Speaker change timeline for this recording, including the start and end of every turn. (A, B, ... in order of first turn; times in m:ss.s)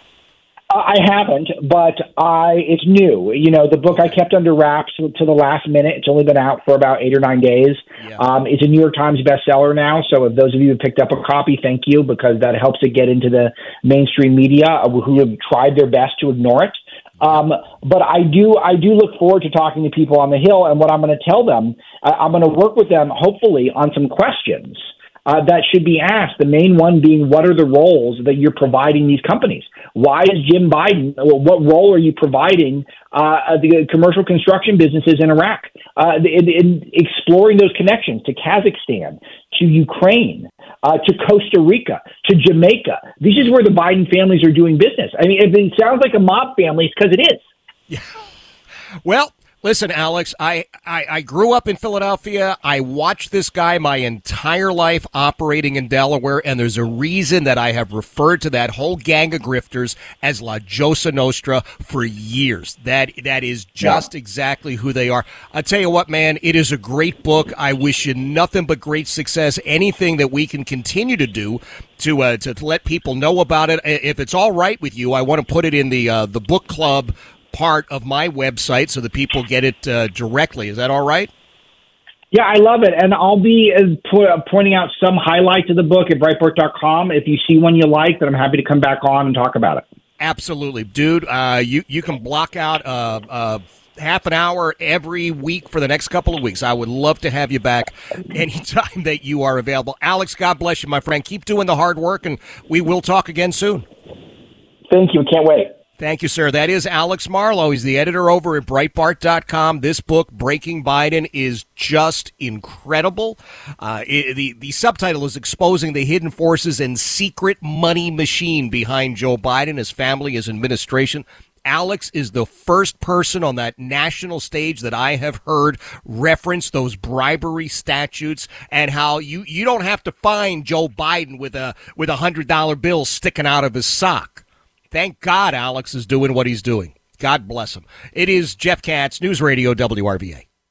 0:00.7-0:47.4 A
0:49.0-1:21.3 B
1:22.3-1:29.8 A
1:30.2-1:43.9 B
1:44.9-1:45.7 A
1:46.0-2:20.4 B